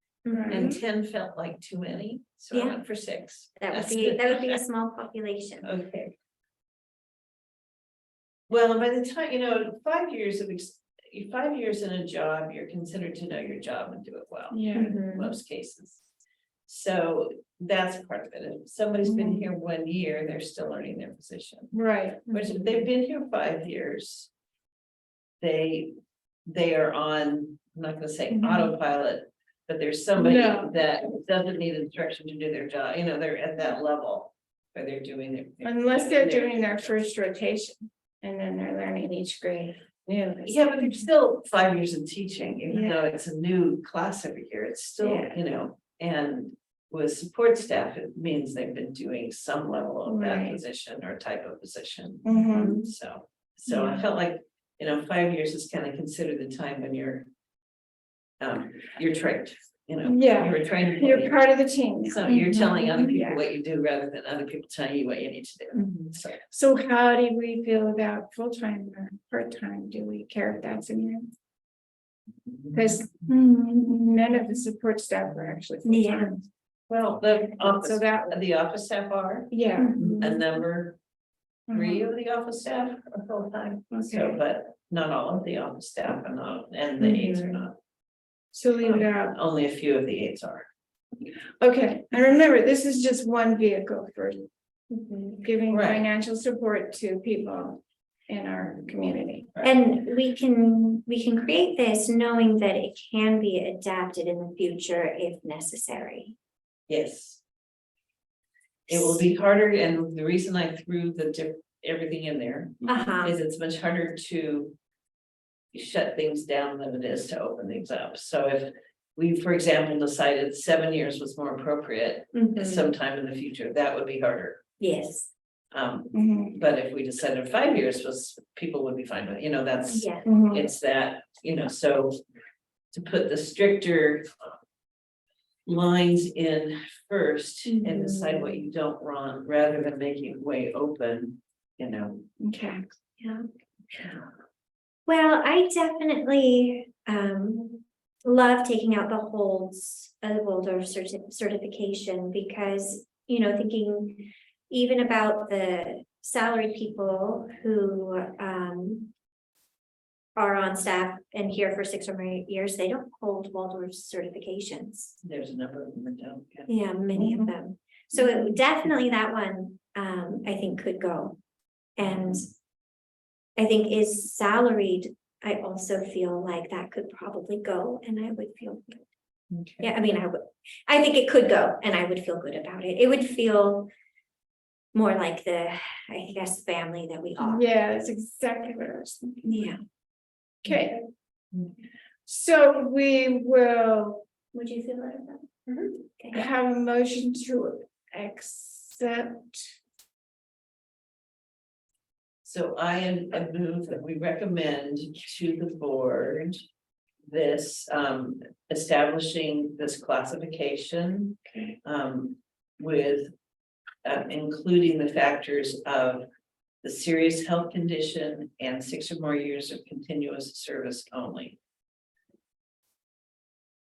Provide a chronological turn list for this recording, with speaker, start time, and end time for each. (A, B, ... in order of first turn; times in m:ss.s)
0:00.2-0:00.8 A
0:00.3-0:00.7 B
0:00.5-0:04.6 C
0:02.5-0:02.8 A
0:03.6-0:05.7 A
0:05.6-0:06.1 C
0:08.5-0:16.0 C
0:14.5-0:15.0 B
0:14.7-0:15.3 A
0:16.7-0:21.7 C
0:19.0-0:19.4 B
0:21.7-0:22.3 B
0:22.3-0:22.6 A
0:22.3-0:24.3 C
0:25.4-0:25.9 C
0:26.5-0:37.0 C
0:28.3-0:28.8 B
0:30.2-0:30.7 B
0:35.6-0:41.1 B
0:40.4-0:57.3 C
0:42.7-0:43.0 B
0:45.0-0:45.4 B
0:50.1-0:50.6 B
0:52.2-0:52.8 B
0:52.3-0:52.9 A
0:53.7-0:54.0 B
0:58.4-1:01.4 C
1:00.0-1:03.4 B
1:02.0-1:06.4 C
1:05.8-1:06.1 A
1:06.5-1:11.3 B
1:12.7-1:16.4 B
1:15.8-1:16.4 A
1:16.9-1:21.0 C
1:17.6-1:18.4 B
1:19.5-1:20.4 B
1:19.8-1:20.2 A
1:21.7-1:22.1 B
1:21.7-1:27.8 C
1:23.9-1:24.4 B
1:27.0-1:27.6 B
1:28.5-1:29.4 B
1:28.8-1:30.7 C
1:31.6-1:34.4 B
1:34.9-1:35.4 A
1:35.4-1:39.7 B
1:35.7-1:36.0 C
1:39.6-1:46.4 A
1:46.9-1:47.4 C
1:48.9-1:49.3 A
1:48.9-1:54.8 C
1:52.9-1:53.4 A
1:55.7-2:04.6 C
2:02.3-2:02.9 A
2:04.8-2:05.3 A
2:05.7-2:12.2 C
2:06.1-2:06.6 B
2:09.9-2:10.3 A
2:10.2-2:10.7 B
2:12.9-2:14.3 C
2:15.7-2:22.2 C
2:17.7-2:18.6 A
2:22.4-2:22.8 B
2:23.2-2:23.4 A
2:25.1-2:39.1 A
2:40.4-2:45.2 A
2:45.2-2:46.7 C
2:46.7-2:51.4 A
2:47.2-2:47.5 B
2:52.0-2:52.5 A
2:53.6-2:59.1 A
2:59.5-2:59.9 C
2:59.8-3:03.9 A
3:04.9-3:07.6 A
3:07.4-3:09.5 B
3:09.4-3:09.8 A
3:10.6-3:11.0 B
3:12.3-3:14.3 B
3:14.5-3:15.5 A
3:16.2-3:16.5 A
3:16.3-3:19.7 B
3:22.4-3:26.6 C
3:27.3-3:33.3 C
3:34.0-3:36.3 C
3:36.8-3:41.6 C